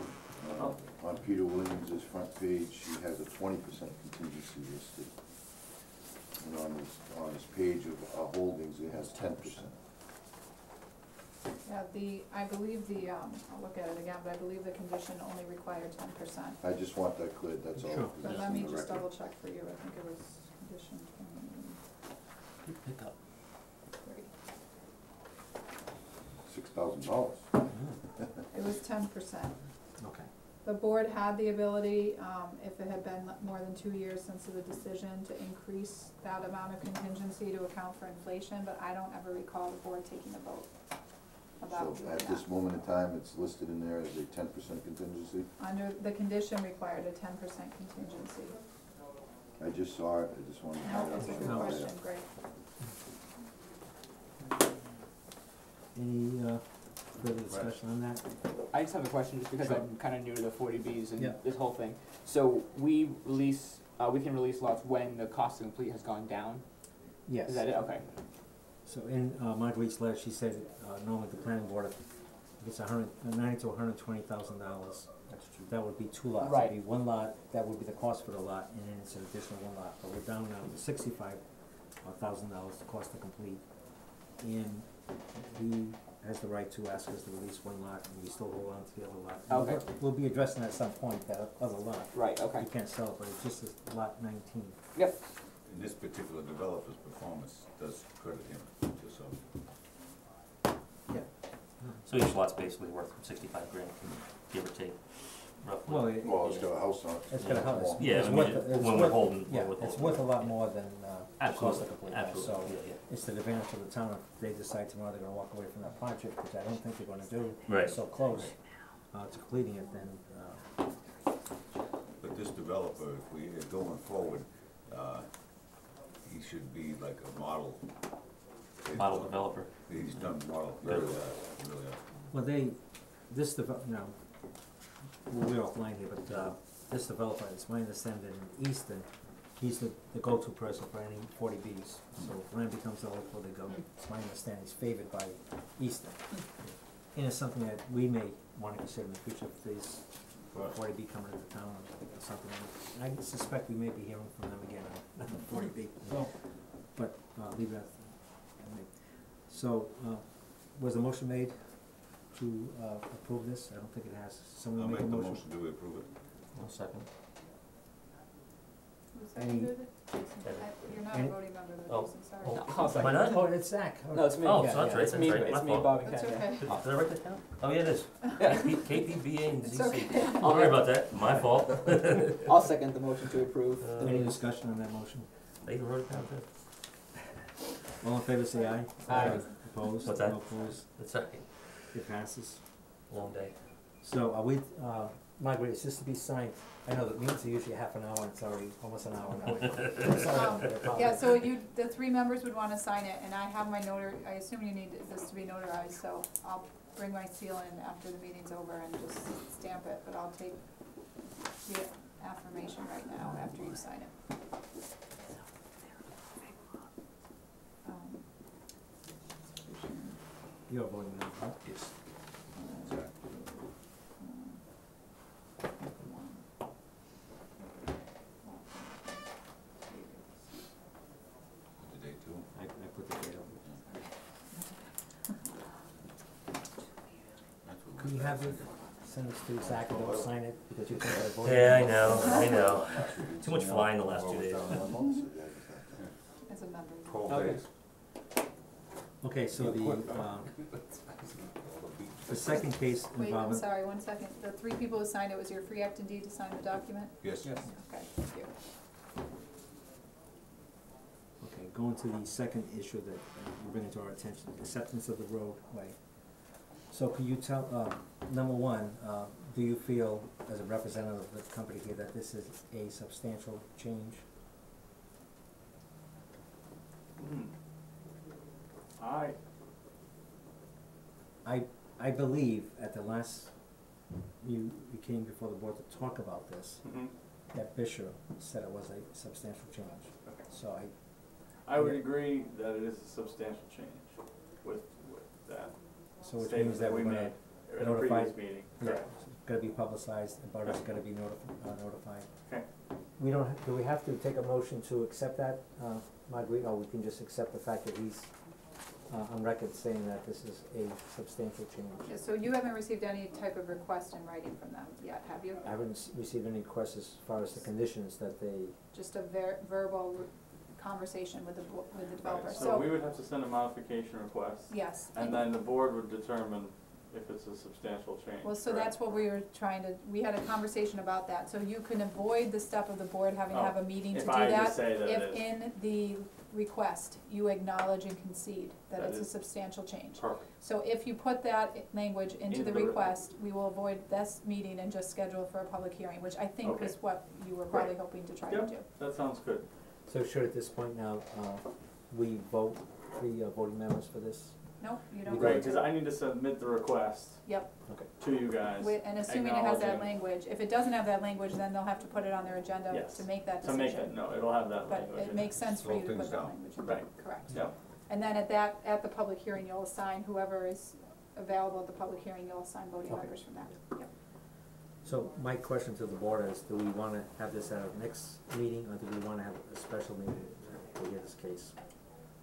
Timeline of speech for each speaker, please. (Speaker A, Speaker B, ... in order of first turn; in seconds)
Speaker A: 0.3-5.7, 6.3-9.9, 16.6-19.1, 26.4-28.5, 41.6-45.5, 49.6-52.1, 106.2-108.4, 242.4-246.1
Speaker B: 8.9-9.7, 17.7-18.1, 27.7-28.0, 30.0-30.3, 51.2-51.8, 55.9-58.2, 67.2-67.9, 68.6-94.8, 105.8-106.6, 107.3-120.7, 132.3-165.4, 169.3-169.7, 171.1-171.4, 172.9-175.8, 184.0-186.5, 188.0-191.1, 191.7-201.3, 220.7-221.9, 232.5-233.6, 238.0-242.6, 249.2-250.5, 252.3-253.7, 261.4-274.2, 281.4-292.0, 296.2-302.6, 303.1-312.2, 315.6-318.8, 350.1-355.8, 373.1-381.8
Speaker C: 11.6-16.6, 18.2-21.8, 24.0-24.3, 28.5-29.6, 30.6-42.9, 45.6-48.6, 50.8-52.5, 169.1-173.1, 175.9-176.7, 178.3-178.8, 179.6-180.8, 188.6-189.6, 199.4-214.3, 217.8-218.8, 219.6-220.2, 222.5-224.6, 225.8-226.4, 228.4-229.2, 229.8-230.5, 246.4-247.6, 253.1-258.6, 312.1-315.8, 318.9-322.9, 324.7-325.5, 328.4-348.9, 354.8-356.0, 357.4-374.1
Speaker D: 22.6-23.2, 75.3-75.7, 102.0-110.8, 111.4-113.0, 117.7-118.0, 128.9-131.2, 166.5-167.1, 170.4-171.0, 171.8-173.8, 174.4-182.5, 183.8-184.5, 185.6-186.5, 189.1-191.9, 193.1-193.7, 199.6-200.0, 241.4-244.9
Speaker E: 57.4-57.8, 95.6-99.4, 122.2-127.9, 128.8-132.0, 150.5-150.8, 164.7-166.1, 222.8-223.1, 231.8-232.5, 237.6-238.9, 239.6-240.3, 242.4-244.8, 247.0-247.7, 249.6-250.4, 250.9-252.8, 257.2-257.6, 365.6-366.9
Speaker F: 58.7-68.0, 76.4-76.8, 89.5-89.9, 92.1-92.7, 94.9-95.2, 172.5-173.6, 174.1-176.6, 178.4-179.2, 180.5-180.8, 182.4-184.3, 189.1-189.5, 247.3-247.6, 257.4-257.7
Speaker G: 277.2-277.5, 279.0-279.4, 286.8-287.1, 291.6-299.1, 322.2-328.9, 333.5-335.4, 338.9-339.3, 340.2-340.5, 342.5-343.1, 346.6-347.1, 347.7-349.7, 355.4-360.1, 362.9-365.5, 366.8-367.8